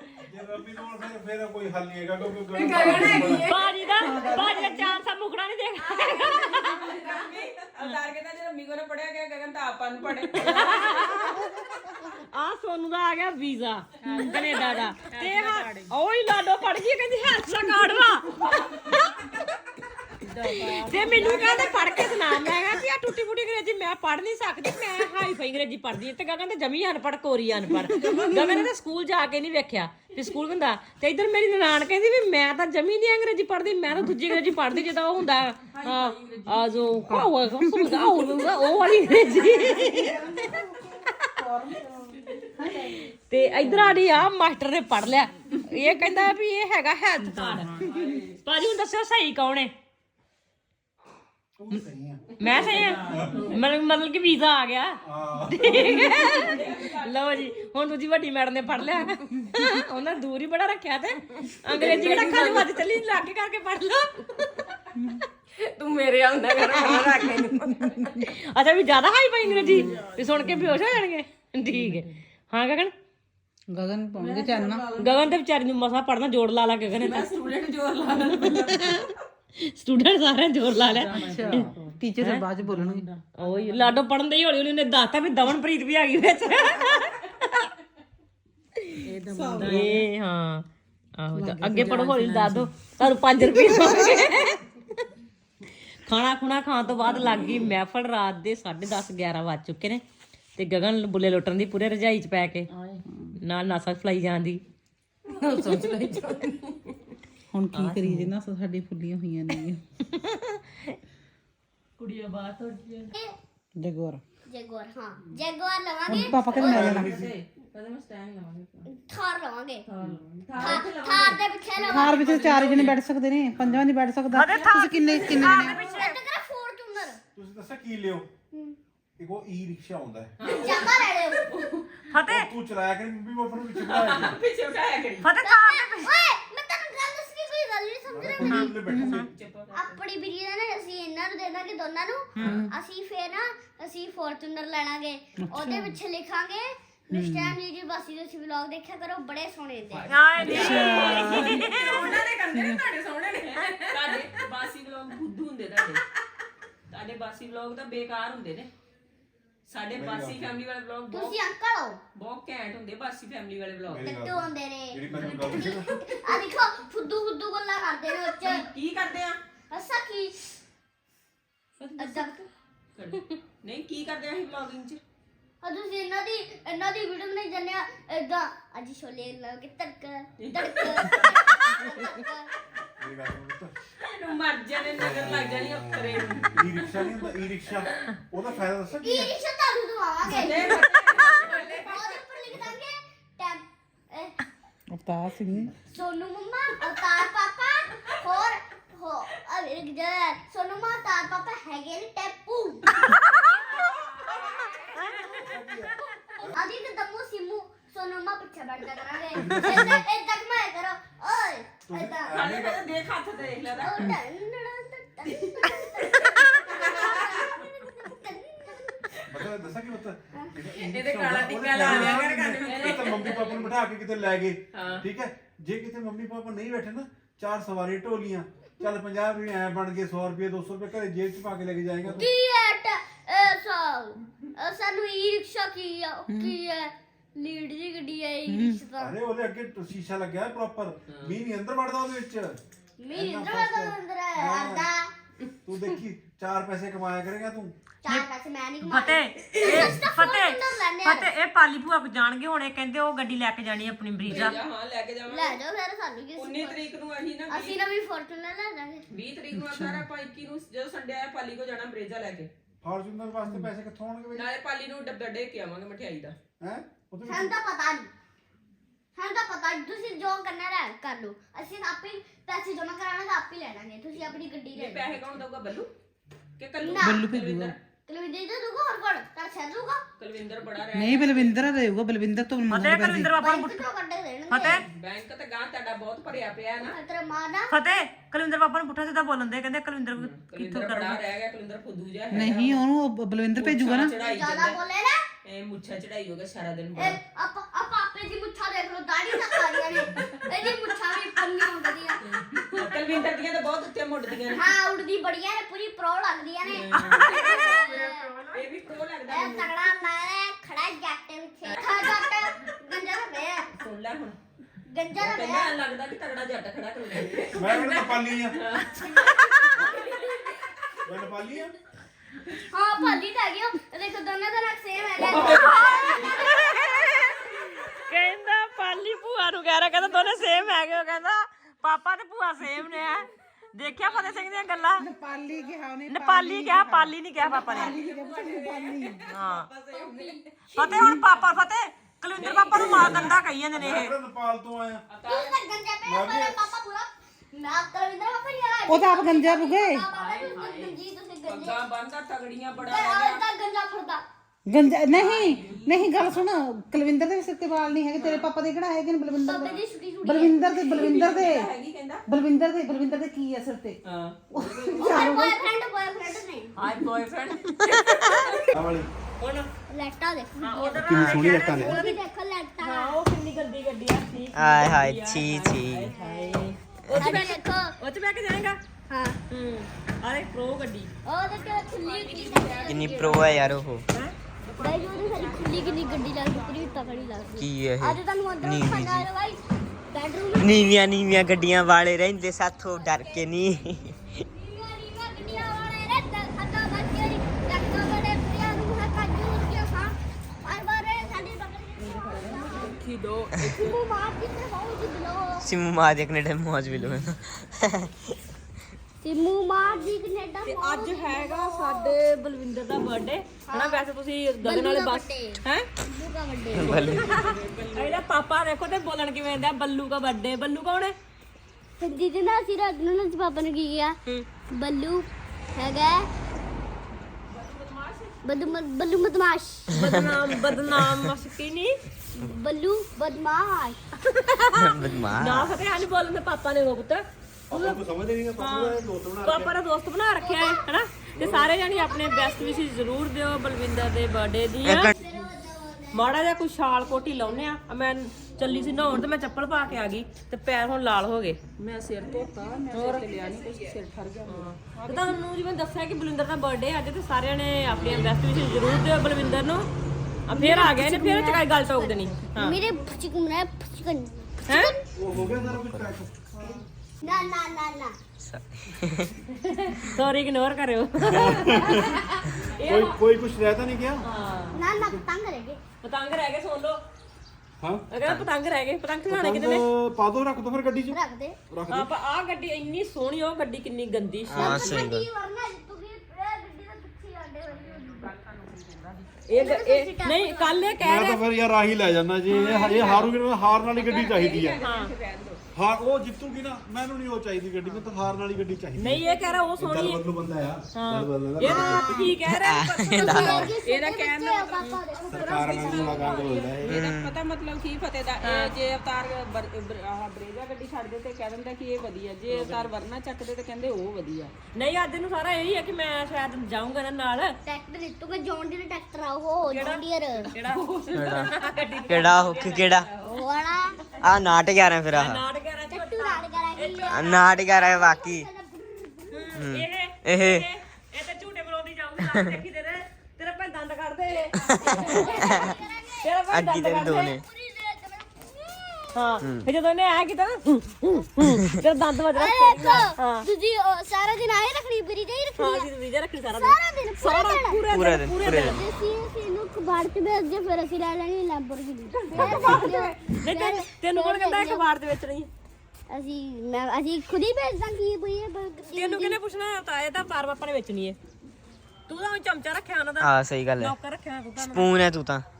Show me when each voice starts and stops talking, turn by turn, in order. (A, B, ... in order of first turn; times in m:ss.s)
0:00.2-0:03.5 A
0:02.6-0:03.6 B
0:03.4-0:07.1 C
0:04.1-0:04.8 D
0:05.9-0:11.1 B
0:10.3-0:11.4 C
0:12.1-0:19.1 C
0:14.0-0:15.9 B
0:18.4-0:18.8 B
0:20.2-0:22.7 B
0:20.4-0:40.2 C
0:27.8-0:28.7 B
0:35.7-0:36.9 B
0:39.4-0:42.9 D
0:42.9-0:47.9 C
0:47.2-0:47.7 D
0:47.6-0:48.4 B
0:48.4-0:49.7 C
0:51.6-0:52.2 A
0:52.4-1:04.5 C
0:52.5-0:53.6 B
0:53.0-0:53.4 A
0:55.0-0:55.9 A
0:56.3-0:57.5 B
1:01.7-1:02.7 B
1:05.6-1:07.9 B
1:08.0-1:12.9 C
1:09.8-1:10.2 B
1:13.7-1:14.8 D
1:14.2-1:15.3 B
1:15.0-1:17.3 C
1:17.0-1:19.2 B
1:18.3-1:18.9 C
1:19.6-1:21.7 C
1:20.9-1:22.0 B
1:21.1-1:23.0 D
1:22.2-1:22.5 C
1:22.6-1:24.0 B
1:23.4-1:27.7 C
1:29.0-1:30.0 B
1:29.3-1:29.8 D
1:29.6-1:30.7 C
1:31.2-1:34.6 C
1:31.3-1:32.7 D
1:36.0-1:40.0 C
1:40.6-1:42.7 C
1:42.7-1:43.0 B
1:43.4-1:44.6 C
1:45.3-1:46.8 B
1:47.5-1:49.8 D
1:47.7-1:48.3 C
1:50.1-1:50.8 C
1:52.0-1:53.1 B
1:53.1-1:53.4 E
1:53.8-1:54.2 D
1:54.5-1:56.9 E
1:56.1-1:57.1 D
1:56.5-1:58.9 B
1:56.6-1:57.3 A
1:58.9-1:59.9 E
1:59.9-2:03.0 B
2:00.6-2:02.4 E
2:01.9-2:05.8 D
2:04.3-2:06.2 C
2:04.5-2:05.6 B
2:05.3-2:07.2 E
2:07.4-2:08.3 A
2:09.2-2:10.3 A
2:10.4-2:11.9 B
2:10.5-2:11.5 E
2:12.1-2:12.5 C
2:12.3-2:14.4 A
2:13.8-2:15.3 B
2:15.2-2:16.1 C
2:15.4-2:18.8 E
2:18.1-2:19.3 A
2:18.4-2:19.3 C
2:19.1-2:20.0 B
2:19.7-2:30.1 E
2:22.4-2:22.6 C
2:22.5-2:22.7 D
2:25.4-2:26.0 D
2:27.1-2:27.6 D
2:29.9-2:36.0 B
2:30.1-2:32.2 C
2:30.4-2:31.6 D
2:32.5-2:32.8 D
2:36.9-2:38.7 B
2:39.7-2:41.4 B
2:39.9-2:40.6 A
2:41.1-2:42.0 E
2:42.2-2:44.1 B
2:43.9-2:45.9 A
2:44.0-2:48.7 E
2:48.2-2:49.4 B
2:49.7-2:50.6 E
2:51.8-2:52.4 C
2:52.0-2:52.5 E
2:53.0-2:55.0 B
2:55.6-3:02.5 E
3:00.4-3:01.3 B
3:03.0-3:03.8 A
3:04.0-3:06.6 B
3:05.0-3:09.3 A
3:09.0-3:10.8 E
3:10.3-3:12.2 B
3:11.6-3:14.4 E
3:12.5-3:12.8 A
3:14.9-3:15.7 D
3:15.9-3:22.9 E
3:23.2-3:26.4 C
3:23.8-3:25.1 B
3:25.1-3:26.6 A
3:26.5-3:32.4 E
3:29.3-3:30.0 A
3:31.9-3:34.1 A
3:32.3-3:34.0 B
3:33.8-3:39.2 E
3:36.1-3:37.6 B
3:39.3-3:52.3 A
3:40.8-3:43.7 B
3:41.8-3:42.3 C
3:44.7-3:45.1 B
3:52.1-3:59.2 E
3:58.5-3:58.8 D
3:59.0-4:02.6 A
4:01.1-4:01.4 B
4:03.0-4:05.1 E
4:03.1-4:04.9 A
4:05.6-4:07.8 A
4:08.0-4:11.3 E
4:08.8-4:14.6 C
4:14.3-4:15.6 B
4:15.3-4:16.8 E
4:16.4-4:17.8 B
4:17.5-4:19.1 E
4:19.1-4:22.5 B
4:19.6-4:20.0 D
4:22.8-4:24.5 A
4:24.3-4:26.4 B
4:26.6-4:27.6 A
4:27.2-4:28.1 E
4:29.2-4:35.2 E
4:34.2-4:35.9 B
4:36.6-4:37.8 B
4:36.8-4:37.2 E
4:37.0-4:37.7 D
4:38.1-4:40.0 E
4:40.2-4:41.6 B
4:40.9-4:43.4 D
4:42.7-4:43.9 C
4:43.4-4:44.9 E
4:44.5-4:44.8 C
4:44.8-4:47.0 B
4:46.8-4:47.7 E
4:47.7-4:51.2 C
4:50.2-4:52.8 B
4:52.3-4:54.1 D
4:53.6-4:54.8 B
4:54.2-4:55.3 E
4:55.4-4:57.2 B
4:57.0-5:02.2 E
5:02.5-5:04.8 B
5:02.8-5:03.3 C
5:04.5-5:08.3 E
5:06.7-5:07.8 B
5:06.9-5:08.7 C
5:08.5-5:09.8 B
5:09.3-5:13.7 E
5:11.6-5:12.2 B
5:13.8-5:14.4 B
5:14.9-5:15.8 E
5:15.2-5:19.0 B
5:17.4-5:18.6 A
5:19.8-5:20.2 B
5:21.0-5:21.7 A
5:22.7-5:26.4 E
5:25.2-5:26.4 B
5:25.2-5:25.7 A
5:25.5-5:35.1 C
5:35.0-5:37.1 D
5:36.1-5:38.0 C
5:37.4-5:40.4 B
5:37.8-5:39.2 D
5:39.3-5:39.7 C
5:39.9-5:41.0 E
5:40.7-5:44.1 C
5:42.4-5:43.4 B
5:42.9-5:45.0 A
5:45.1-5:45.6 B
5:45.3-5:51.8 E
5:46.0-5:46.6 A
5:48.9-5:50.1 D
5:50.1-5:53.4 B
5:52.8-5:54.2 E
5:54.7-6:01.7 D
5:55.1-5:56.4 B
5:58.2-5:58.5 B
5:59.4-6:01.2 E
6:00.9-6:02.2 B
6:02.3-6:04.0 D
6:04.0-6:05.2 B
6:04.5-6:05.6 D
6:05.0-6:06.8 E
6:06.8-6:08.6 B
6:08.7-6:09.1 A
6:09.4-6:09.7 C
6:09.9-6:13.2 E
6:10.6-6:12.2 C
6:11.1-6:12.0 A
6:11.1-6:11.4 F
6:12.8-6:18.8 C
6:14.5-6:16.1 F
6:17.2-6:18.0 E
6:19.1-6:19.4 E
6:19.5-6:21.1 C
6:21.3-6:23.6 E
6:21.7-6:23.8 B
6:22.9-6:24.0 F
6:24.6-6:27.5 B
6:24.8-6:31.2 E
6:27.6-6:29.3 F
6:30.5-6:34.2 F
6:32.9-6:33.4 E
6:34.5-6:43.0 E
6:42.0-6:44.0 B
6:43.7-6:45.7 E
6:45.6-6:48.1 F
6:49.2-6:52.2 E
6:49.8-6:50.1 B
6:50.7-6:55.9 C
6:53.7-6:54.1 E
6:54.6-6:57.1 E
6:56.7-6:57.3 F
6:56.8-6:58.2 B
6:57.1-7:01.2 C
7:02.0-7:04.2 E
7:04.7-7:06.3 E
7:07.5-7:08.7 B
7:08.4-7:09.9 E
7:09.9-7:12.0 C
7:12.4-7:14.0 E
7:14.2-7:18.0 C
7:14.8-7:15.8 F
7:17.7-7:19.8 A
7:18.6-7:25.1 C
7:20.4-7:20.9 E
7:21.4-7:21.7 A
7:21.8-7:22.8 E
7:24.8-7:25.1 F
7:25.0-7:26.3 E
7:26.1-7:31.6 C
7:31.8-7:34.7 B
7:32.9-7:33.7 C
7:34.5-7:39.9 C
7:40.5-7:42.8 C
7:40.5-7:45.0 E
7:44.7-7:44.9 C
7:45.2-7:46.8 A
7:45.3-7:46.1 F
7:47.2-7:48.2 E
7:48.4-7:49.3 F
7:49.6-7:53.2 C
7:51.2-7:52.2 A
7:52.8-7:54.2 A
7:54.2-7:54.8 C
7:54.7-7:55.8 E
7:54.9-7:55.2 A
7:56.0-7:57.0 C
7:57.8-7:58.1 A
7:58.1-7:59.9 C
7:58.2-7:58.5 F
7:59.3-8:01.2 A
8:01.1-8:01.6 E
8:01.7-8:02.1 A
8:01.9-8:04.8 C
8:04.5-8:05.3 F
8:04.6-8:08.3 E
8:07.7-8:09.4 B
8:09.5-8:11.4 C
8:09.5-8:11.0 E
8:11.0-8:14.8 A
8:12.5-8:13.3 B
8:12.6-8:13.3 C
8:14.0-8:15.6 B
8:14.8-8:15.1 C
8:15.7-8:19.3 A
8:19.0-8:20.2 C
8:19.2-8:19.6 B
8:19.8-8:22.2 A
8:20.9-8:23.8 C
8:21.7-8:22.1 E
8:21.8-8:23.7 F
8:23.1-8:26.3 E
8:23.8-8:34.5 B
8:24.8-8:26.6 C
8:25.2-8:27.1 A
8:26.9-8:27.4 F
8:28.4-8:28.7 C
8:32.5-8:32.9 C
8:34.7-8:37.5 C
8:37.6-8:40.5 E
8:39.7-8:43.0 C
8:40.7-8:43.4 B
8:41.1-8:41.5 F
8:42.1-8:43.1 F
8:43.2-8:44.2 E
8:44.2-8:45.4 F
8:45.1-8:47.4 C
8:45.9-8:49.5 E
8:47.1-8:48.5 F
8:49.3-8:57.4 C
8:49.5-8:50.7 F
8:54.7-8:55.7 F
8:54.7-8:59.4 E
8:56.5-8:57.4 F
8:59.2-9:03.5 C
9:02.3-9:05.9 E
9:05.6-9:08.8 C
9:06.6-9:14.9 E
9:07.9-9:08.8 F
9:12.3-9:15.5 C
9:12.4-9:13.1 B
9:16.1-9:19.4 E
9:18.9-9:21.2 C
9:22.1-9:25.0 C
9:23.2-9:24.0 F
9:24.6-9:25.5 F